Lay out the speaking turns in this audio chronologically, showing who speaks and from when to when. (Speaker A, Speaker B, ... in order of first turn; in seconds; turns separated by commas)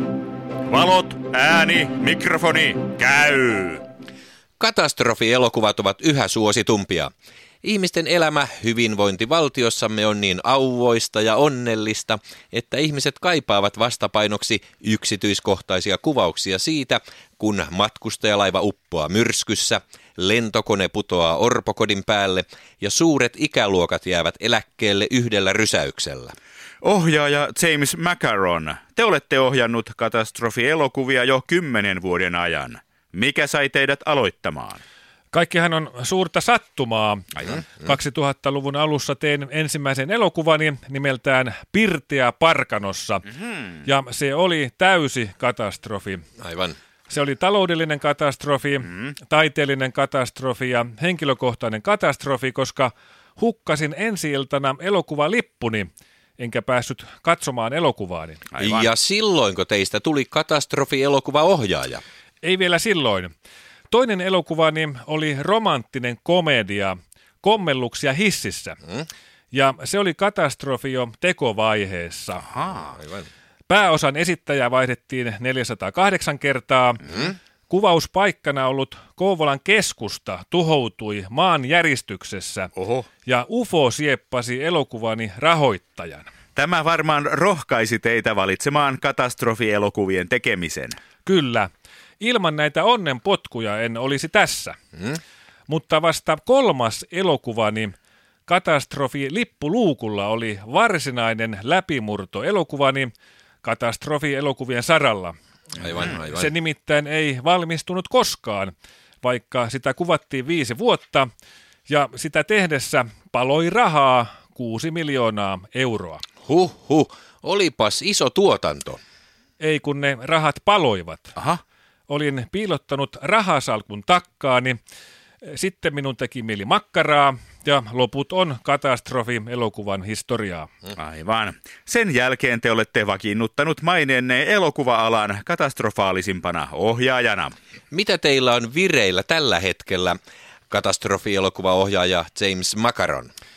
Speaker A: 0.7-3.8, Speaker B: 4.6-7.1, Speaker B: 7.6-26.3, Speaker A: 26.8-34.8, Speaker C: 35.3-43.3, Speaker C: 43.8-46.2, Speaker B: 46.4-46.8, Speaker C: 47.1-58.4, Speaker A: 58.5-58.9, Speaker B: 58.6-62.0, Speaker C: 62.4-63.3, Speaker C: 63.9-68.8, Speaker C: 69.5-72.5, Speaker A: 72.5-72.9, Speaker B: 72.9-73.3, Speaker C: 73.7-82.7, Speaker A: 82.8-83.0, Speaker C: 83.2-86.3, Speaker A: 86.5-91.0, Speaker C: 91.2-91.7, Speaker C: 92.2-94.8, Speaker C: 95.7-97.9, Speaker C: 98.5-103.1, Speaker C: 103.6-105.3, Speaker B: 105.8-106.5, Speaker C: 105.9-111.3, Speaker C: 111.9-116.2, Speaker B: 116.4-119.0, Speaker C: 119.6-121.3, Speaker C: 122.1-124.8, Speaker C: 125.4-130.7, Speaker A: 130.9-137.5, Speaker B: 137.9-140.2, Speaker B: 140.7-143.3